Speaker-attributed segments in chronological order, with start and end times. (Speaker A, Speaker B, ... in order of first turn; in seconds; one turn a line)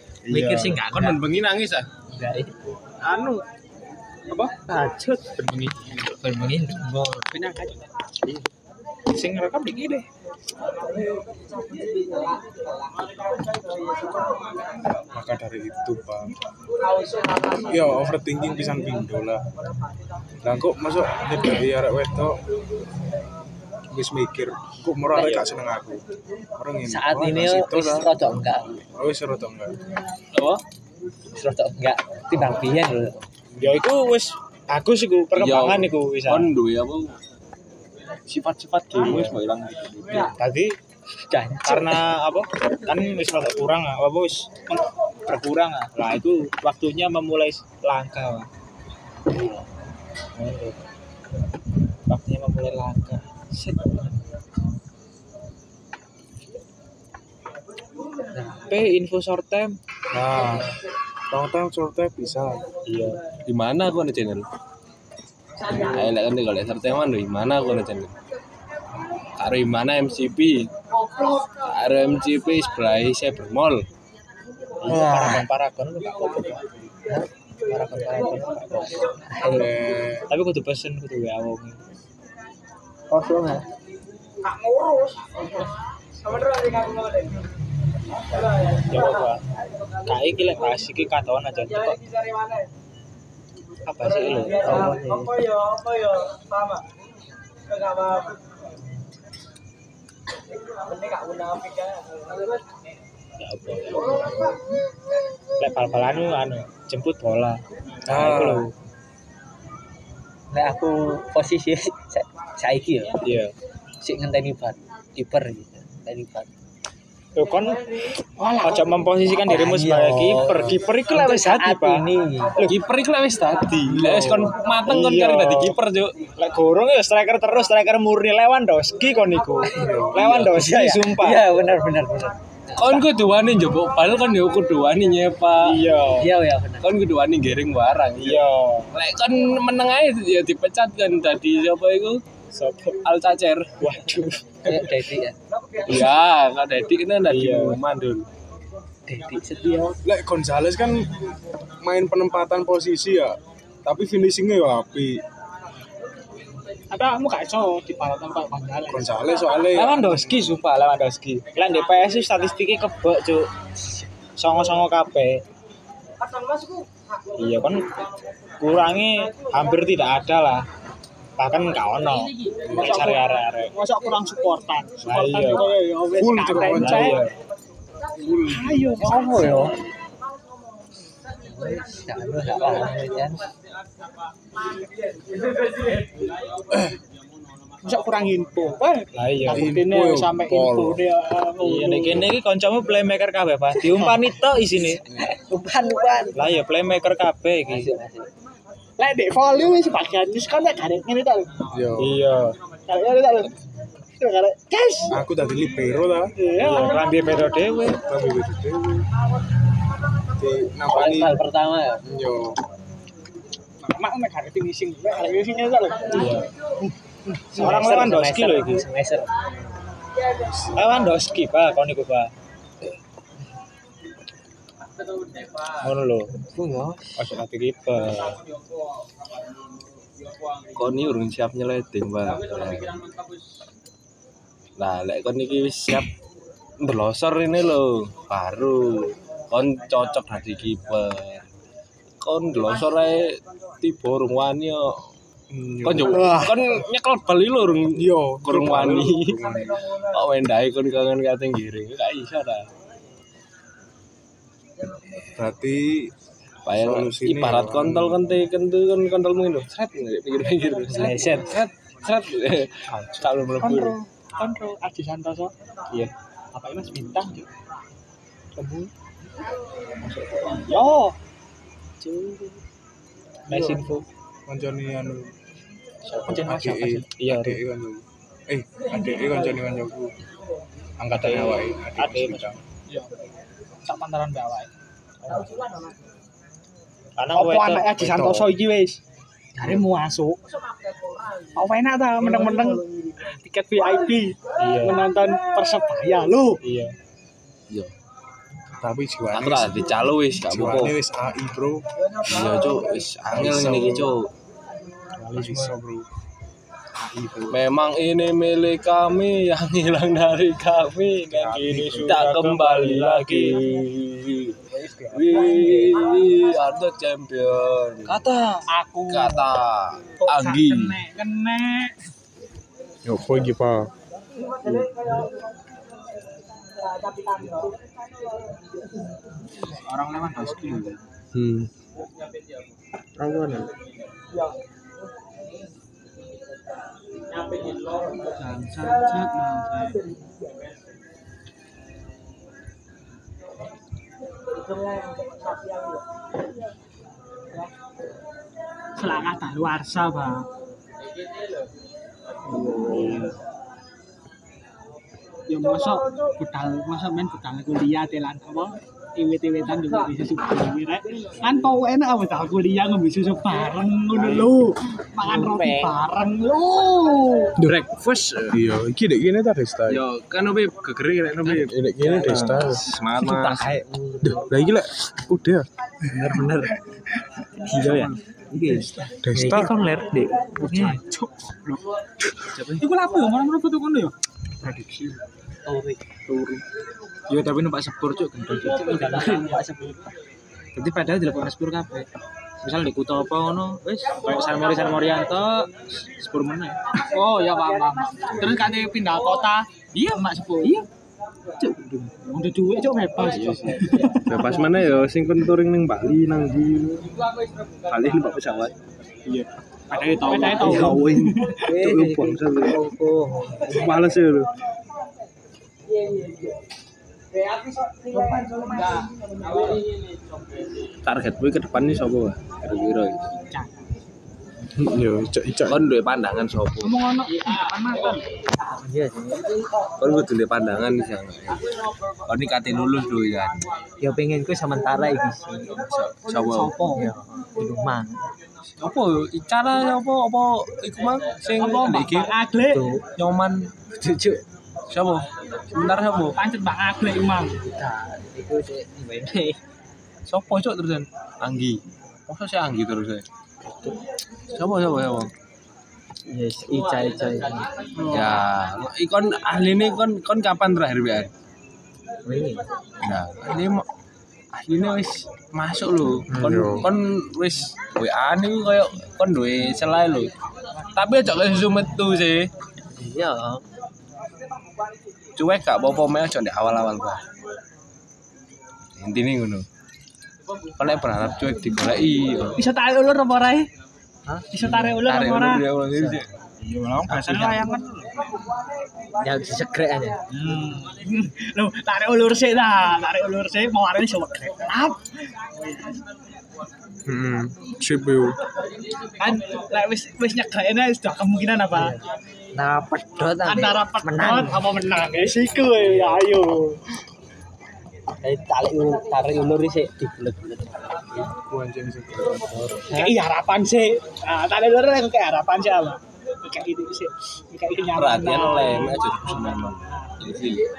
Speaker A: 0.3-1.2
Speaker B: 0.3-0.7
Speaker C: 0.8-1.9
Speaker A: 2.1-2.5
Speaker D: 3.0-3.4
Speaker D: 4.3-5.9
Speaker A: 6.0-7.3
Speaker D: 9.1-10.1
Speaker B: 15.1-16.3
Speaker B: 17.7-19.4
Speaker B: 20.4-22.4
Speaker B: 23.9-26.0
Speaker A: 25.1-25.5
Speaker B: 26.6-28.1
Speaker A: 26.9-28.7
Speaker B: 28.9-29.8
Speaker C: 30.3-30.6
Speaker A: 31.3-33.2
Speaker D: 33.6-36.5
Speaker C: 35.3-37.2
Speaker C: 38.3-40.3
Speaker D: 39.0-39.3
Speaker D: 40.3-40.7
Speaker A: 41.3-42.1
Speaker D: 41.6-44.5
Speaker D: 45.3-48.5
Speaker D: 50.4-50.8
Speaker D: 52.1-54.0
Speaker D: 58.4-59.8
Speaker B: 60.1-60.6
Speaker B: 61.3-62.6
Speaker D: 62.9-63.2
Speaker C: 63.5-64.5
Speaker C: 65.7-68.1
Speaker C: 69.4-70.7
Speaker C: 71.6-73.9
Speaker D: 74.8-76.6
Speaker A: 74.8-75.5
Speaker D: 77.7-79.0
Speaker A: 79.3-79.8
Speaker B: 79.4-80.3
Speaker D: 80.3-81.8
Speaker A: 83.1-83.7
Speaker D: 88.9-89.4
Speaker D: 90.0-92.0
Speaker D: 93.9-94.8
Speaker A: 94.6-95.4
Speaker A: 103.4-104.2
Speaker D: 105.6-108.7
Speaker B: 108.0-108.7
Speaker A: 110.5-113.2
Speaker D: 113.2-113.5
Speaker A: 114.0-116.5
Speaker D: 117.4-117.8
Speaker E: 118.4-119.1
Speaker D: 118.6-122.7
Speaker A: 119.4-122.7
Speaker C: 122.6-126.1
Speaker B: 123.9-124.5
Speaker D: 124.9-125.8
Speaker D: 126.4-131.4
Speaker A: 129.7-133.1
Speaker C: 130.1-130.5
Speaker C: 132.8-135.8
Speaker D: 135.6-136.3
Speaker A: 136.2-136.9
Speaker C: 136.8-142.2
Speaker D: 138.2-138.9
Speaker D: 142.5-143.0
Speaker C: 143.0-144.0
Speaker D: 143.8-144.7
Speaker A: 144.6-145.3
Speaker C: 145.9-148.3
Speaker D: 147.3-147.8
Speaker A: 149.1-150.0
Speaker B: 150.0-151.1
Speaker B: 151.8-155.2
Speaker E: 156.9-159.1
Speaker B: 158.9-160.4
Speaker D: 159.7-163.5
Speaker D: 164.4-165.4
Speaker D: 167.4-167.8
Speaker D: 168.6-170.6
Speaker D: 171.4-173.7
Speaker E: 172.7-177.2
Speaker D: 175.0-175.7
Speaker B: 176.1-177.2
Speaker D: 176.5-177.3
Speaker B: 178.2-178.8
Speaker E: 178.4-179.7
Speaker A: 179.0-179.7
Speaker A: 181.4-183.5
Speaker B: 186.7-186.9
Speaker E: 187.8-192.3
Speaker D: 189.1-189.7
Speaker B: 189.5-191.0
Speaker D: 191.6-195.0
Speaker A: 193.9-196.5
Speaker D: 196.3-197.9
Speaker A: 197.7-198.3
Speaker E: 199.0-201.6
Speaker B: 201.7-202.2
Speaker D: 202.0-202.6
Speaker E: 202.9-203.5
Speaker E: 204.2-205.2
Speaker B: 205.1-206.3
Speaker E: 206.4-207.0
Speaker D: 206.6-208.0
Speaker B: 208.0-209.1
Speaker B: 210.4-211.4
Speaker A: 210.9-212.0
Speaker B: 212.0-212.6
Speaker E: 213.8-216.4
Speaker D: 216.1-216.5
Speaker D: 217.5-218.8
Speaker A: 217.5-219.3
Speaker B: 220.4-220.8
Speaker D: 220.7-222.3
Speaker D: 225.8-226.3
Speaker A: 226.5-227.1
Speaker D: 227.2-228.4
Speaker C: 230.7-233.0
Speaker C: 234.8-236.1
Speaker C: 236.8-241.4
Speaker C: 242.2-245.0
Speaker B: 245.5-246.7
Speaker C: 245.8-249.4
Speaker B: 247.9-249.8
Speaker C: 250.1-252.7
Speaker B: 255.3-256.1
Speaker C: 256.6-264.0
Speaker B: 256.7-258.2
Speaker A: 260.9-261.6
Speaker E: 263.6-265.5
Speaker E: 266.5-267.5
Speaker E: 268.6-268.9
Speaker D: 270.1-270.6
Speaker E: 270.6-271.2
Speaker D: 273.5-274.0
Speaker E: 273.5-273.8
Speaker B: 274.5-275.3
Speaker D: 276.1-276.3
Speaker E: 276.3-277.1
Speaker B: 276.3-280.1
Speaker D: 277.2-277.6
Speaker B: 281.0-282.6
Speaker D: 281.1-282.6
Speaker E: 283.8-284.7
Speaker D: 285.2-285.6
Speaker D: 287.2-288.4
Speaker E: 287.3-289.0
Speaker E: 289.6-290.4
Speaker E: 291.6-296.6
Speaker D: 292.2-292.6
Speaker D: 294.6-295.0
Speaker D: 296.6-296.9
Speaker B: 298.8-301.8
Speaker C: 299.3-300.9
Speaker C: 302.2-304.3
Speaker B: 303.3-304.1
Speaker D: 305.2-305.7
Speaker B: 305.3-306.1
Speaker C: 307.5-318.2
Speaker B: 311.3-312.2
Speaker D: 311.3-313.6
Speaker D: 314.7-315.9
Speaker D: 318.1-318.6
Speaker E: 318.7-319.4
Speaker C: 319.1-321.0
Speaker E: 320.2-321.9
Speaker B: 323.1-323.9
Speaker D: 329.9-331.0
Speaker C: 331.3-331.7
Speaker C: 333.2-333.7
Speaker E: 338.4-340.0
Speaker E: 348.9-350.5
Speaker E: 352.8-353.1
Speaker E: 355.5-367.6
Speaker A: 365.2-366.0
Speaker C: 367.6-368.6
Speaker B: 368.5-370.0
Speaker C: 369.9-373.8
Speaker B: 371.4-372.8
Speaker A: 373.2-374.4
Speaker B: 374.2-375.7
Speaker A: 376.1-376.7
Speaker A: 377.7-380.9
Speaker C: 377.7-378.1
Speaker D: 377.8-381.0
Speaker B: 379.2-379.8
Speaker C: 382.5-382.8
Speaker E: 382.8-384.1
Speaker D: 384.6-385.2
Speaker A: 385.7-386.0
Speaker D: 386.3-386.6
Speaker D: 387.3-389.6
Speaker A: 389.0-389.6
Speaker D: 390.7-392.1
Speaker D: 392.6-396.8
Speaker E: 397.1-400.9
Speaker E: 402.1-404.4
Speaker C: 403.2-407.1
Speaker C: 407.9-408.7
Speaker E: 410.1-411.7
Speaker C: 410.3-412.8
Speaker A: 410.4-411.1
Speaker A: 411.6-413.8
Speaker C: 413.6-414.5
Speaker C: 421.0-423.3
Speaker E: 423.5-423.8
Speaker B: 424.8-425.8
Speaker C: 425.7-426.9
Speaker E: 426.8-428.2
Speaker A: 428.8-429.5
Speaker C: 430.0-431.6
Speaker C: 432.3-433.6
Speaker A: 434.0-435.7
Speaker C: 435.7-436.8
Speaker E: 436.4-437.1
Speaker A: 436.9-438.2
Speaker C: 438.8-442.3
Speaker E: 441.6-442.9
Speaker A: 442.7-443.1
Speaker C: 443.1-443.7
Speaker A: 443.9-444.4
Speaker C: 444.9-446.4
Speaker E: 446.3-447.6
Speaker A: 447.6-449.6
Speaker C: 450.3-453.2
Speaker C: 454.5-455.3
Speaker A: 456.3-458.2
Speaker E: 458.0-458.4
Speaker C: 458.1-461.3
Speaker A: 462.3-462.6
Speaker C: 463.0-463.9
Speaker C: 464.5-470.3
Speaker B: 466.3-466.9
Speaker C: 470.9-472.5
Speaker A: 473.0-473.6
Speaker C: 475.4-477.2
Speaker C: 479.0-479.6
Speaker C: 480.8-482.6
Speaker E: 482.6-483.7
Speaker E: 484.5-485.7
Speaker C: 484.6-486.3
Speaker D: 486.6-487.8
Speaker E: 487.1-488.0
Speaker A: 489.2-490.2
Speaker D: 490.3-490.8
Speaker E: 490.5-495.0
Speaker E: 495.6-495.9
Speaker B: 497.1-498.4
Speaker E: 499.2-502.0
Speaker A: 502.6-504.6
Speaker E: 503.4-506.8
Speaker A: 508.2-510.9
Speaker B: 511.3-512.6
Speaker A: 512.5-513.1
Speaker E: 512.9-519.0
Speaker C: 518.0-520.6